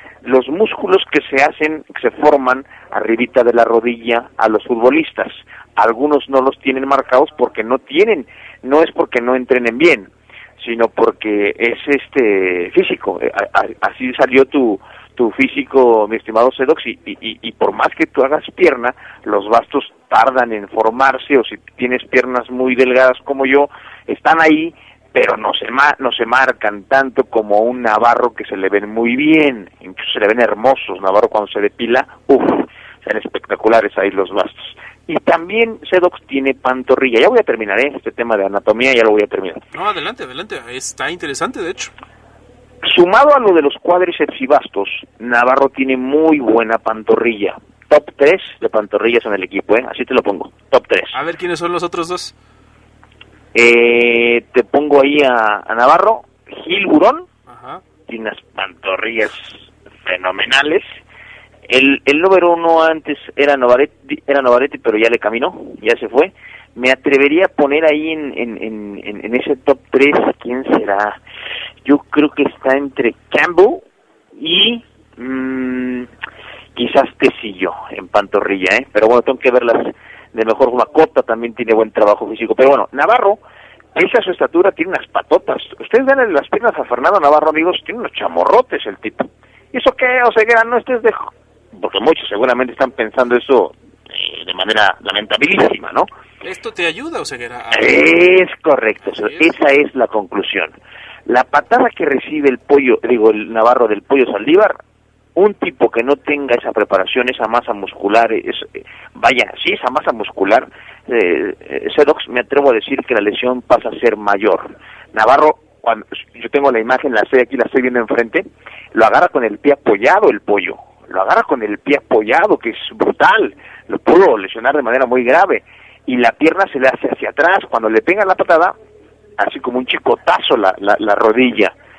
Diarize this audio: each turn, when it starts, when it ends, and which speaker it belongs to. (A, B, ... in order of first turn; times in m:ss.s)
0:00.2-0:39.6 A
0:39.7-0:41.9 B
0:42.8-0:51.1 A
0:51.1-0:52.3 B
0:53.5-0:57.3 A
0:57.5-0:57.8 B
0:58.1-1:00.8 A
1:01.7-1:11.2 A
1:11.8-1:13.8 A
1:14.4-1:16.1 A
1:16.7-1:23.4 A
1:23.9-1:36.1 A
1:36.4-1:38.1 B
1:37.7-1:44.8 A
1:39.0-1:39.5 B
1:45.4-2:08.7 A
2:09.4-2:11.7 A